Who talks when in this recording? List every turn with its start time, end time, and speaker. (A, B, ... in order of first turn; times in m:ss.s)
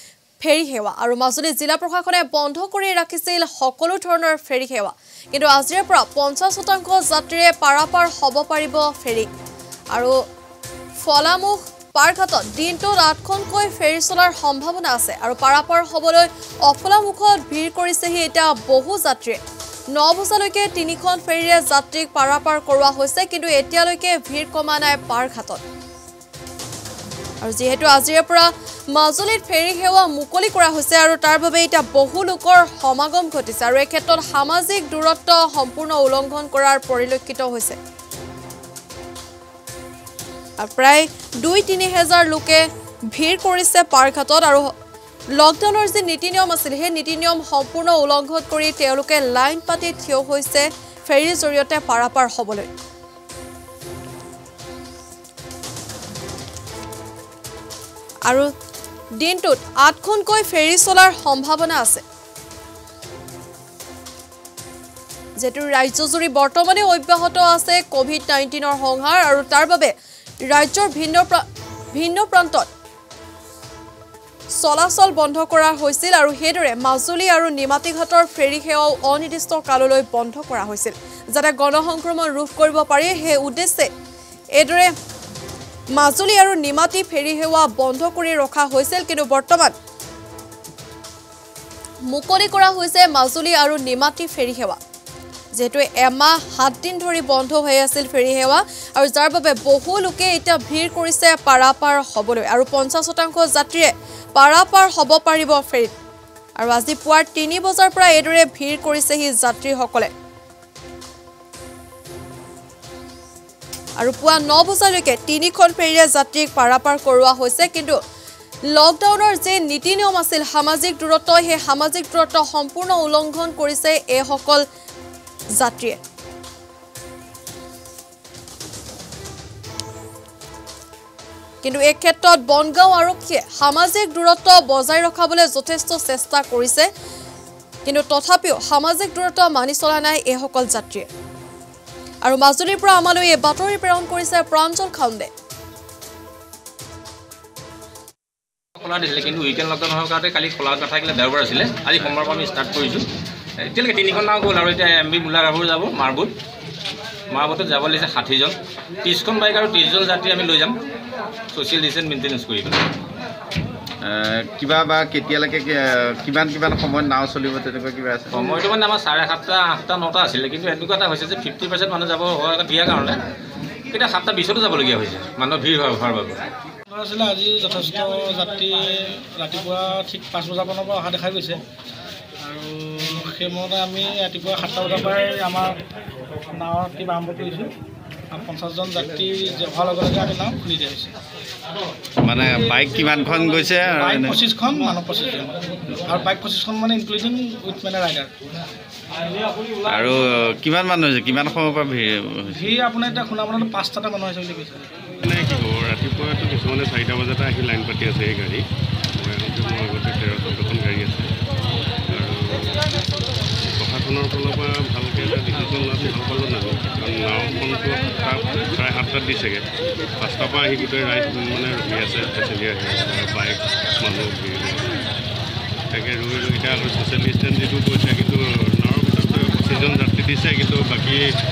0:00.4-0:09.3 A
0:11.0-0:19.4 A
0:20.0-0:25.6 A
0:27.4-0:37.8 A
0:40.6-0:44.6 A
0:45.4-0:52.7 A
0:59.2-1:02.0 A
1:05.4-1:09.9 A
1:10.5-1:12.7 A
1:14.6-1:23.9 A
1:24.6-1:24.9 A
1:26.0-1:29.7 A
1:32.1-1:34.8 A
1:35.5-1:45.9 A
1:46.6-1:50.1 A
1:54.0-1:58.0 A
1:58.7-2:04.6 A
2:05.6-2:06.0 A
2:11.6-2:16.9 A
2:17.8-2:21.1 A
2:22.2-2:25.3 A
2:28.8-2:33.0 B
2:33.6-2:36.3 B
2:37.3-2:40.7 B
2:41.5-2:42.9 B
2:44.0-2:48.4 C
2:48.3-2:53.2 B
2:53.9-2:56.4 B
2:56.9-3:01.6 D
3:02.4-3:05.8 D
3:06.5-3:07.7 D
3:08.3-3:11.1 D
3:12.2-3:14.4 C
3:14.0-3:18.3 D
3:19.8-3:22.6 C
3:22.5-3:24.9 D
3:25.2-3:28.6 E
3:29.2-3:31.3 E
3:32.1-3:32.8 E
3:33.6-3:39.6 E
3:40.2-3:44.9 E
3:45.9-3:51.2 E